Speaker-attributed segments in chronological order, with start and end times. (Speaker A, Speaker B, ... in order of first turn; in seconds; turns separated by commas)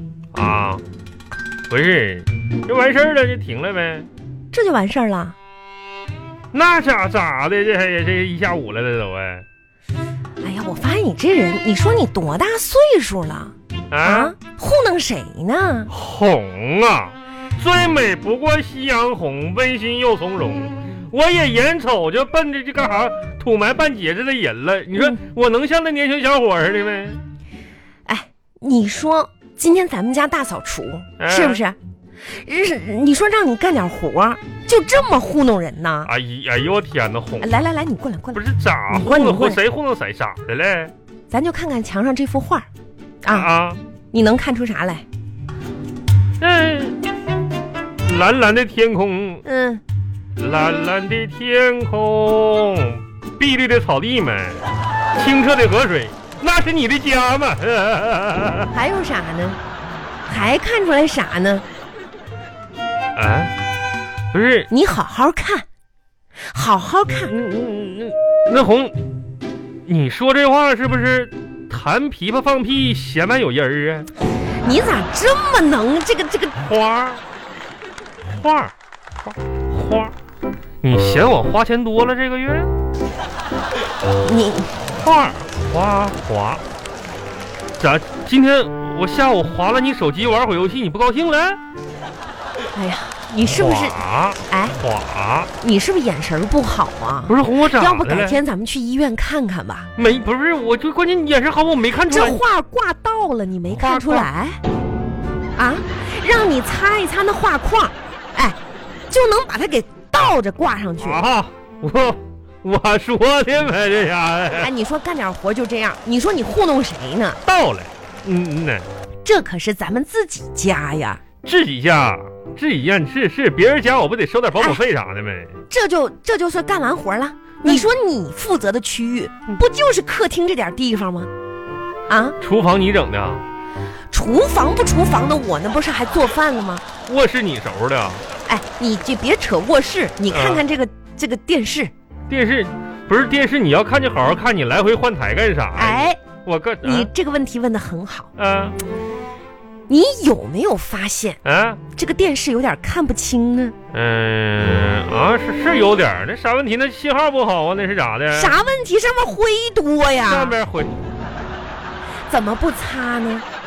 Speaker A: 0.3-0.8, Speaker A: 1.7-4.1, Speaker B: 4.5-5.3, Speaker A: 6.5-9.4, Speaker B: 10.4-15.9, Speaker A: 13.9-14.3, Speaker A: 15.9-27.2, Speaker B: 28.1-31.8, Speaker A: 31.2-31.6, Speaker B: 32.3-36.1, Speaker A: 36.0-37.5, Speaker B: 37.4-39.6, Speaker A: 38.3-40.9, Speaker B: 41.3-42.7, Speaker B: 43.2-43.5, Speaker A: 43.3-43.8, Speaker B: 44.1-45.0, Speaker A: 46.4-47.0, Speaker A: 48.0-49.4, Speaker B: 49.4-49.8, Speaker A: 50.4-54.6, Speaker A: 55.1-58.7, Speaker B: 58.7-59.6, Speaker B: 60.3-61.6, Speaker A: 63.1-63.5, Speaker A: 64.3-64.7, Speaker B: 64.7-65.7, Speaker B: 66.5-67.3, Speaker A: 67.3-69.0, Speaker A: 69.8-74.1, Speaker B: 74.6-76.6, Speaker A: 76.6-77.2, Speaker A: 78.2-78.7, Speaker A: 79.2-80.1, Speaker A: 80.8-82.7, Speaker B: 84.2-84.7, Speaker A: 84.9-86.6, Speaker A: 87.8-91.6, Speaker B: 92.7-94.8, Speaker A: 93.4-95.5, Speaker B: 95.6-99.9, Speaker A: 97.3-98.4, Speaker A: 100.0-102.4, Speaker B: 102.1-104.6, Speaker A: 103.7-104.3, Speaker B: 105.5-108.6, Speaker B: 109.1-111.2, Speaker A: 111.0-114.7, Speaker B: 114.5-117.4, Speaker A: 117.4-118.9, Speaker B: 119.2-121.2, Speaker A: 121.4-125.6, Speaker B: 125.7-131.3, Speaker B: 132.1-132.3, Speaker A: 132.4-133.4, Speaker B: 134.1-136.8, Speaker A: 137.1-138.2, Speaker B: 138.5-141.9, Speaker A: 140.3-140.6, Speaker A: 142.3-147.1, Speaker B: 145.7-146.2, Speaker B: 146.8-148.3, Speaker A: 148.3-148.8, Speaker B: 149.9-151.4, Speaker A: 151.4-151.8, Speaker B: 151.9-153.7, Speaker A: 153.9-158.5, Speaker B: 158.3-160.5, Speaker A: 160.2-160.9, Speaker B: 162.3-163.4